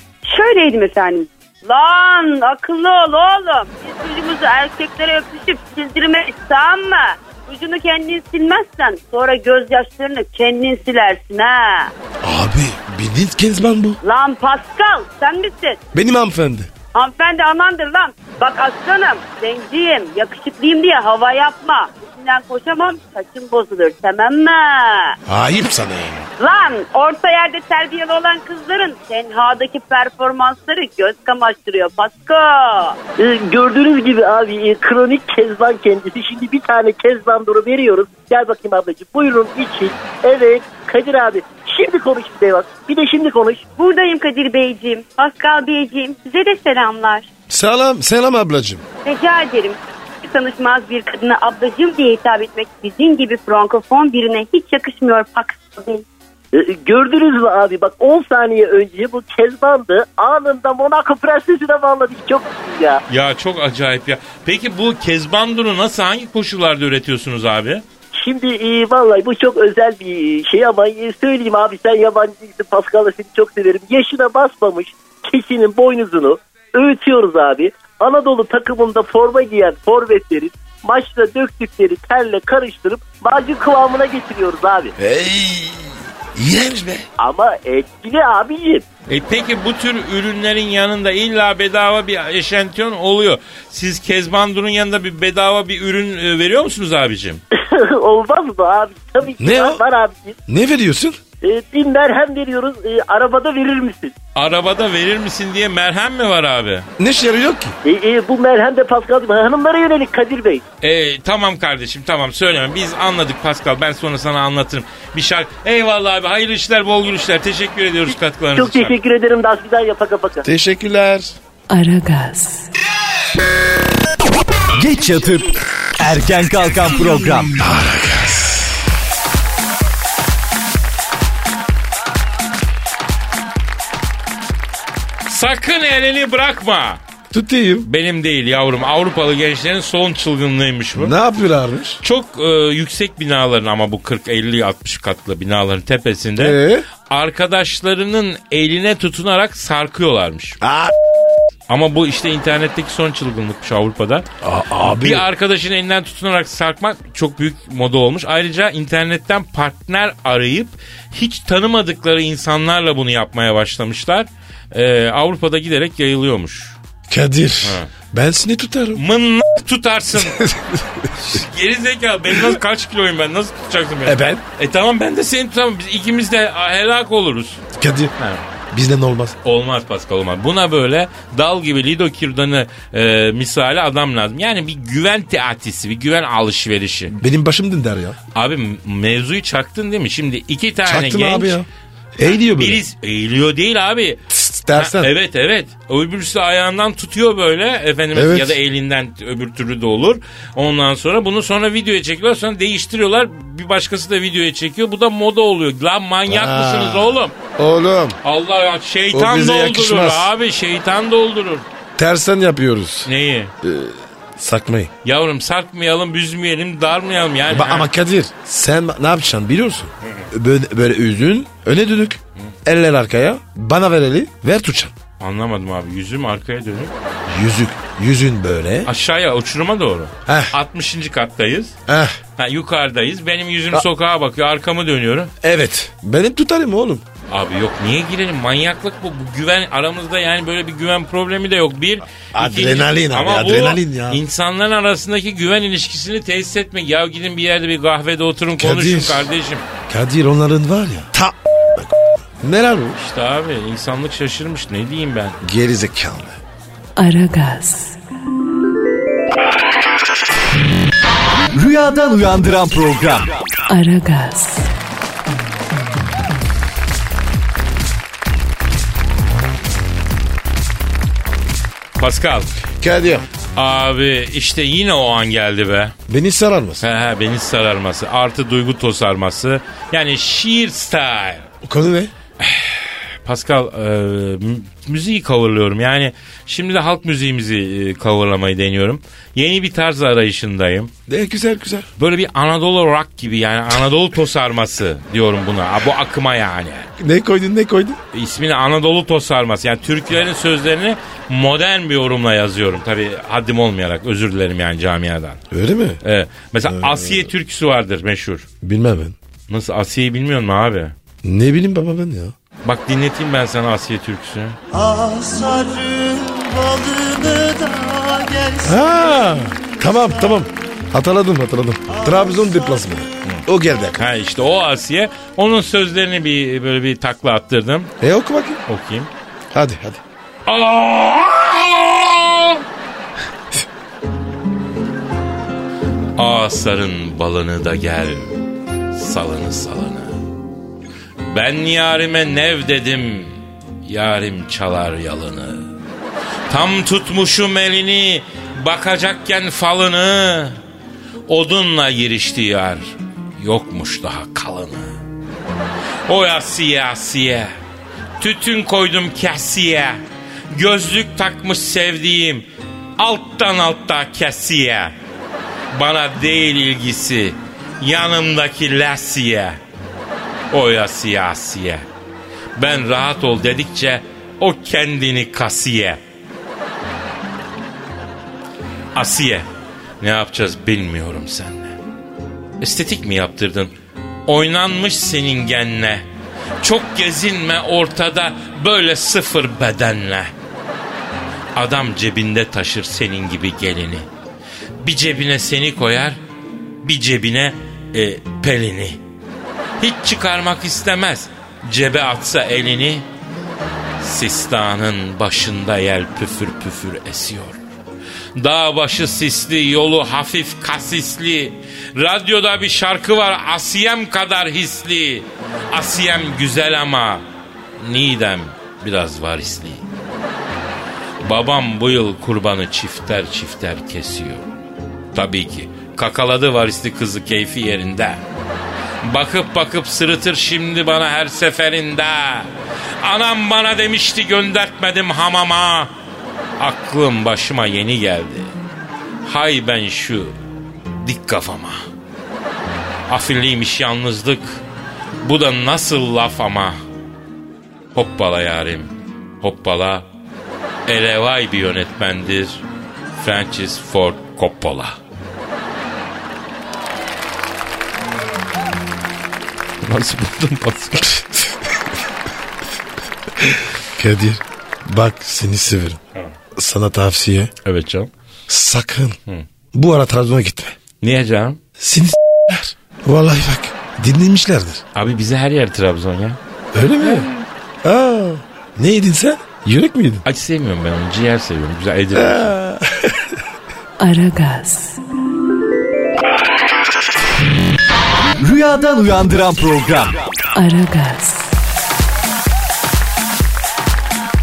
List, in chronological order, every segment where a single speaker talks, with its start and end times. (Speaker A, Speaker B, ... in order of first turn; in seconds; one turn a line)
Speaker A: 0.2-11.9
Speaker B: 12.2-14.0
Speaker A: 14.0-15.8
Speaker B: 15.9-16.7
Speaker A: 16.9-25.2
Speaker B: 25.3-26.3
Speaker A: 26.4-33.0
Speaker C: 33.2-43.6
Speaker A: 43.8-47.3
Speaker B: 47.5-48.8
Speaker A: 49.0-56.0
Speaker C: 56.5-63.0
Speaker D: 63.1-67.8
Speaker C: 68.2-84.9
Speaker B: 85.0-87.1
Speaker C: 87.2-88.9
Speaker D: 89.1-97.4
Speaker C: 97.5-100.4
Speaker B: 99.4-99.8
Speaker B: 100.5-101.2
Speaker C: 101.4-104.1
Speaker D: 104.4-106.9
Speaker B: 107.0-107.8
Speaker C: 107.8-110.6
Speaker D: 110.8-118.9
Speaker C: 118.6-120.5
Speaker B: 120.5-121.3
Speaker E: 121.7-122.7
Speaker F: 124.8-127.6
Speaker B: 127.6-128.8
Speaker D: 135.3-137.0
Speaker B: 137.3-137.9
Speaker D: 137.8-141.2
Speaker B: 140.9-142.0
Speaker D: 142.0-150.6
Speaker B: 146.4-146.9
Speaker B: 150.6-151.0
Speaker D: 151.7-154.3
Speaker B: 154.4-155.3
Speaker D: 154.8-166.8
Speaker B: 167.1-169.0
Speaker D: 167.6-167.9
Speaker D: 168.9-170.5
Speaker B: 170.2-171.1
Speaker D: 171.1-177.6
Speaker B: 174.1-174.4
Speaker B: 177.8-178.1
Speaker D: 178.2-178.4
Speaker B: 178.7-179.4
Speaker D: 179.4-187.2
Speaker B: 187.2-188.2
Speaker D: 188.3-191.6
Speaker B: 190.8-192.8
Speaker D: 192.2-194.2
Speaker B: 194.3-195.1
Speaker D: 194.8-207.3
Speaker B: 198.1-198.6
Speaker B: 206.3-208.2
Speaker D: 208.2-211.7
Speaker B: 209.1-210.3
Speaker B: 212.0-213.1
Speaker D: 213.1-213.5
Speaker B: 213.6-214.9
Speaker D: 215.0-217.9
Speaker B: 217.5-224.9
Speaker D: 220.0-220.3
Speaker D: 225.2-226.9
Speaker B: 227.3-228.9
Speaker D: 228.8-231.8
Speaker B: 230.3-230.5
Speaker B: 231.9-232.2
Speaker D: 232.4-235.3
Speaker B: 235.4-237.0
Speaker D: 237.3-249.7
Speaker B: 242.3-244.2
Speaker B: 248.6-249.3
Speaker B: 249.9-253.0
Speaker D: 252.9-255.4
Speaker B: 255.4-256.4
Speaker E: 257.0-258.0
Speaker F: 261.5-263.4
Speaker E: 263.7-264.7
Speaker D: 272.0-272.5
Speaker B: 272.8-273.3
Speaker D: 273.6-275.9
Speaker B: 276.1-276.9
Speaker D: 276.8-281.5
Speaker B: 281.6-282.1
Speaker D: 282.4-290.9
Speaker B: 291.1-291.9
Speaker D: 292.0-296.9
Speaker B: 297.0-298.0
Speaker D: 298.1-305.4
Speaker B: 305.5-306.0
Speaker D: 306.0-308.5
Speaker B: 306.7-307.3
Speaker B: 308.6-309.2
Speaker D: 309.5-310.9
Speaker B: 311.2-312.4
Speaker D: 312.6-314.6
Speaker B: 314.7-317.5
Speaker B: 318.6-324.0
Speaker D: 324.0-327.9
Speaker B: 328.0-328.6
Speaker D: 328.7-329.1
Speaker B: 329.5-330.0
Speaker D: 330.5-332.6
Speaker D: 336.2-338.4
Speaker D: 338.9-340.2
Speaker D: 341.3-345.7
Speaker D: 346.5-350.6
Speaker D: 351.3-355.0
Speaker D: 356.1-357.5
Speaker D: 358.2-362.5
Speaker D: 363.0-364.9
Speaker D: 365.7-369.6
Speaker D: 370.5-371.9
Speaker D: 372.6-376.0
Speaker D: 378.9-379.5
Speaker D: 380.0-381.8
Speaker D: 382.6-383.7
Speaker D: 384.3-386.0
Speaker D: 386.6-390.3
Speaker D: 391.6-394.1
Speaker D: 394.8-396.2
Speaker D: 396.8-399.0
Speaker D: 399.8-403.1
Speaker D: 404.0-407.6
Speaker D: 408.4-417.2
Speaker D: 417.8-419.8
Speaker D: 421.2-424.5
Speaker D: 425.1-428.2
Speaker D: 429.0-432.5
Speaker D: 433.0-435.9
Speaker D: 436.6-438.5
Speaker D: 439.2-440.4
Speaker D: 441.0-441.8
Speaker D: 443.1-444.6
Speaker D: 445.2-446.8
Speaker D: 447.9-450.1
Speaker D: 450.9-452.6
Speaker D: 453.2-455.0
Speaker D: 459.8-461.3
Speaker B: 463.9-466.0
Speaker B: 466.5-467.5
Speaker D: 467.6-468.1
Speaker B: 468.5-469.2
Speaker B: 469.7-470.8
Speaker D: 471.0-471.6
Speaker B: 471.8-474.8
Speaker D: 474.9-476.4
Speaker B: 476.7-477.3
Speaker B: 477.8-480.2
Speaker D: 480.2-482.6
Speaker B: 482.1-483.2
Speaker E: 484.0-485.0
Speaker F: 488.4-490.2
Speaker E: 490.5-491.6